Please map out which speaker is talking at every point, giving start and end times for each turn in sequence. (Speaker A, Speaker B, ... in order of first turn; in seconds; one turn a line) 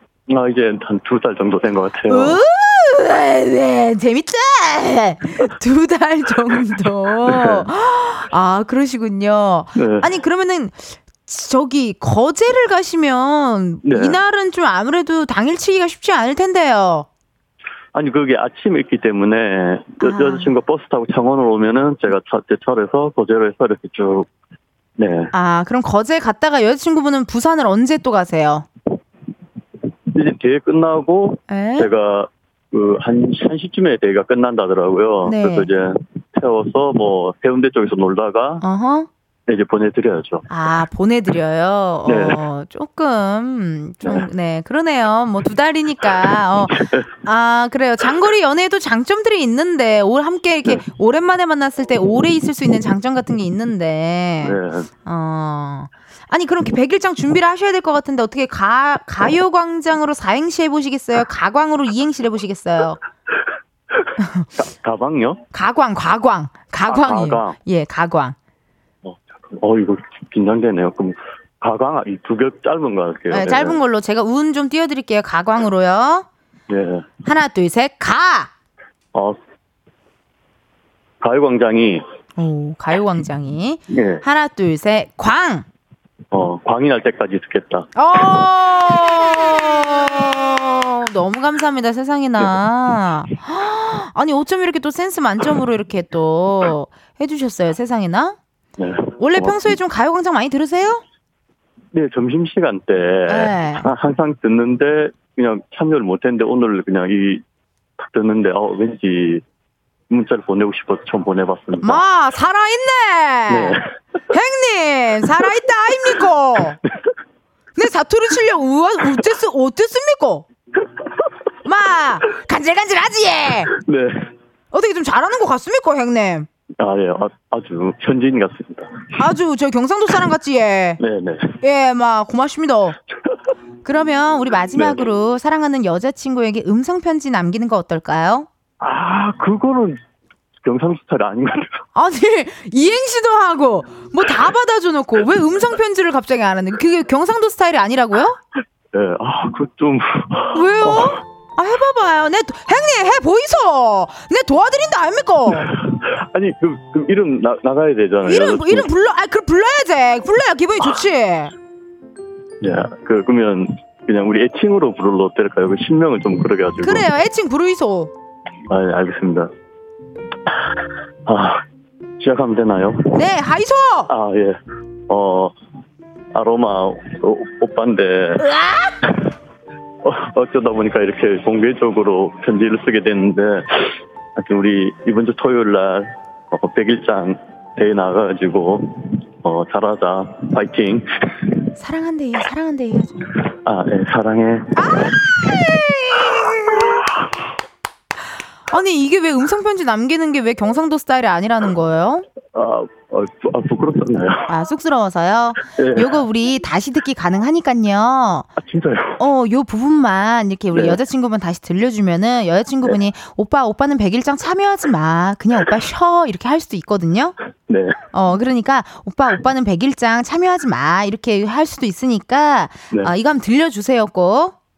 Speaker A: 0.3-2.4
Speaker B: 2.1-17.1
Speaker A: 7.3-7.7
Speaker A: 9.8-10.1
Speaker A: 13.8-14.2
Speaker A: 17.9-24.3
Speaker B: 20.0-20.5
Speaker A: 25.0-25.3
Speaker B: 25.3-28.6
Speaker A: 30.1-38.6
Speaker B: 31.5-31.9
Speaker B: 35.2-35.7
Speaker B: 38.6-39.1
Speaker A: 39.5-40.5
Speaker B: 40.5-63.0
Speaker A: 42.0-42.4
Speaker A: 46.8-47.0
Speaker A: 54.4-54.9
Speaker A: 64.0-65.4
Speaker B: 64.2-64.5
Speaker B: 65.5-68.3
Speaker A: 66.8-67.6
Speaker A: 69.0-73.8
Speaker B: 73.3-76.3
Speaker A: 76.7-77.1
Speaker B: 77.2-78.5
Speaker A: 81.2-82.0
Speaker B: 82.4-85.7
Speaker A: 83.9-84.2
Speaker A: 86.3-87.9
Speaker B: 88.0-98.4
Speaker A: 98.8-99.8
Speaker B: 99.2-101.0
Speaker A: 101.9-107.4
Speaker B: 103.3-103.9
Speaker A: 108.0-109.4
Speaker A: 110.1-112.0
Speaker B: 111.8-113.8
Speaker A: 113.5-113.9
Speaker B: 114.3-116.8
Speaker B: 117.8-120.5
Speaker B: 121.6-123.7
Speaker A: 123.7-124.3
Speaker B: 124.7-126.5
Speaker A: 126.8-129.1
Speaker B: 129.2-131.0
Speaker A: 131.0-131.6
Speaker B: 131.6-133.0
Speaker B: 133.8-138.5
Speaker A: 134.7-135.0
Speaker A: 138.8-140.0
Speaker A: 140.6-141.8
Speaker B: 141.9-148.4
Speaker A: 148.9-151.2
Speaker B: 150.5-155.7
Speaker A: 155.6-158.9
Speaker B: 158.2-161.5
Speaker A: 162.6-167.1
Speaker B: 166.8-168.1
Speaker A: 168.7-169.5
Speaker A: 170.5-171.6
Speaker A: 172.2-173.2
Speaker B: 173.1-174.1
Speaker A: 174.1-175.5
Speaker A: 176.3-178.5
Speaker B: 178.4-179.0
Speaker A: 179.0-179.3
Speaker A: 180.0-191.6
Speaker B: 191.8-193.3
Speaker A: 193.4-197.4
Speaker B: 194.8-197.1
Speaker B: 198.7-202.2
Speaker A: 202.5-204.5
Speaker B: 204.5-208.5
Speaker A: 205.7-206.2
Speaker A: 208.6-209.2
Speaker B: 209.2-217.3
Speaker A: 210.7-211.0
Speaker A: 217.7-218.0
Speaker B: 218.1-224.5